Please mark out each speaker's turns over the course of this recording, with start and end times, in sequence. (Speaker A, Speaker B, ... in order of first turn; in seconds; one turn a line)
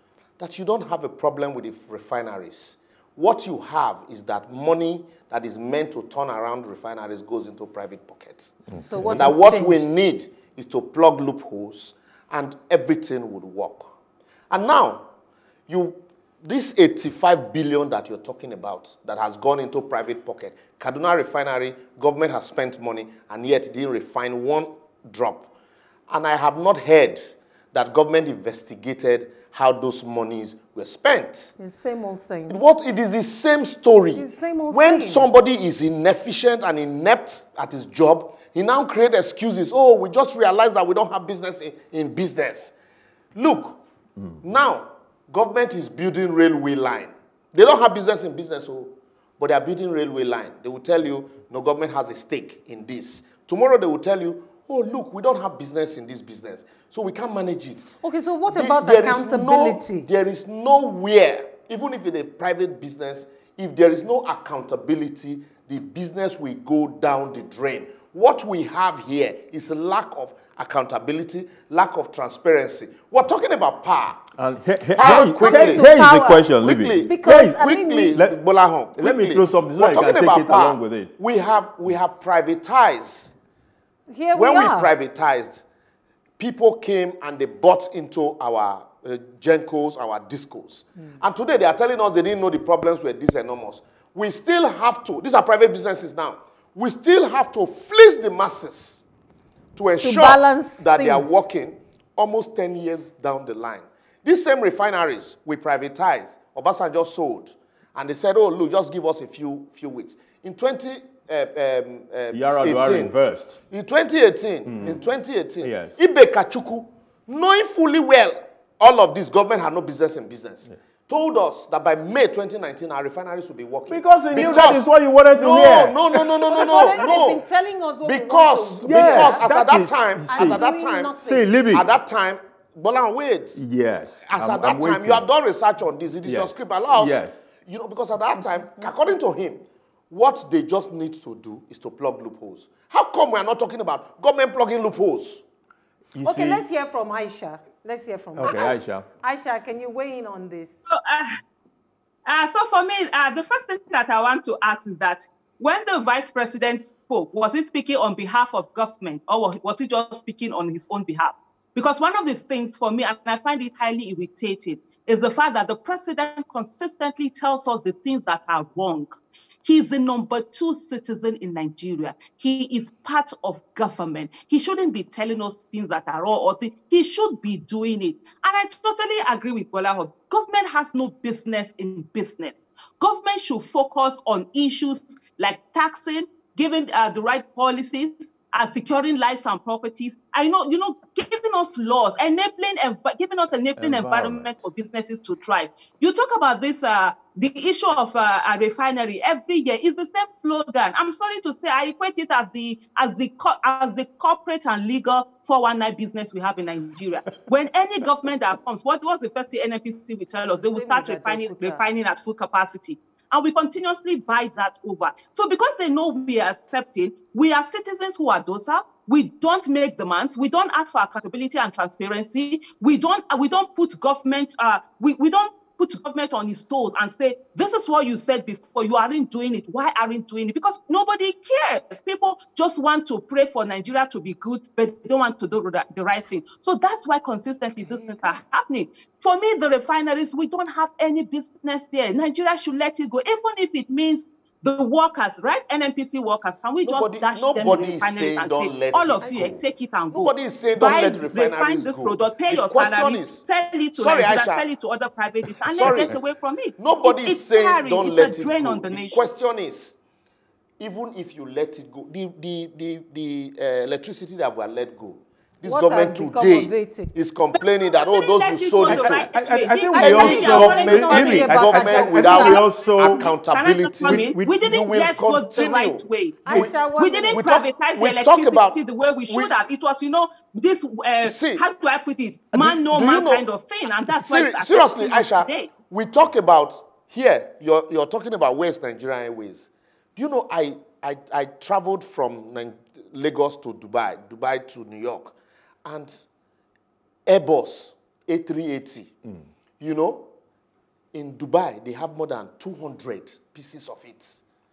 Speaker A: 0.4-13.9
Speaker B: 8.8-10.0
Speaker A: 14.5-15.1
Speaker A: 15.7-25.5
Speaker A: 26.1-31.5
Speaker B: 31.6-32.6
Speaker A: 32.5-42.7
Speaker B: 34.1-35.3
Speaker A: 43.3-43.8
Speaker A: 44.4-57.9
Speaker B: 58.0-60.1
Speaker A: 58.5-74.2
Speaker C: 74.3-77.6
Speaker A: 75.0-75.9
Speaker B: 75.0-76.5
Speaker A: 76.6-83.3
Speaker B: 77.0-78.2
Speaker C: 79.0-81.1
Speaker B: 84.1-84.9
Speaker A: 84.3-85.6
Speaker A: 86.4-99.0
Speaker A: 99.7-113.1
Speaker B: 100.0-101.5
Speaker C: 112.3-113.6
Speaker A: 113.7-127.4
Speaker C: 114.7-115.1
Speaker C: 115.6-116.0
Speaker C: 123.9-126.9
Speaker B: 126.5-129.6
Speaker A: 128.0-133.6
Speaker C: 128.8-130.6
Speaker B: 130.3-131.5
Speaker C: 131.2-131.9
Speaker C: 133.5-135.2
Speaker A: 134.3-145.4
Speaker C: 136.2-137.4
Speaker C: 146.1-146.7
Speaker B: 146.2-150.8
Speaker C: 148.3-149.1
Speaker D: 150.9-151.4
Speaker D: 152.3-169.1
Speaker D: 169.6-259.3
Speaker C: 193.8-194.6
Speaker B: 210.5-211.8
Speaker A: 246.8-253.4
Speaker A: 253.9-254.7
Speaker A: 255.7-256.2
Speaker A: 256.8-259.9
Speaker A: 260.8-269.4
Speaker B: 265.6-267.1
Speaker D: 267.9-271.5
Speaker C: 268.8-273.3
Speaker B: 269.9-272.6
Speaker A: 270.0-276.8
Speaker D: 272.4-285.7
Speaker C: 274.0-274.5
Speaker B: 276.4-277.4
Speaker A: 277.3-279.5
Speaker A: 281.2-281.6
Speaker A: 282.5-283.4
Speaker A: 284.1-296.2
Speaker A: 297.2-299.1
Speaker A: 299.8-300.3
Speaker A: 301.1-304.4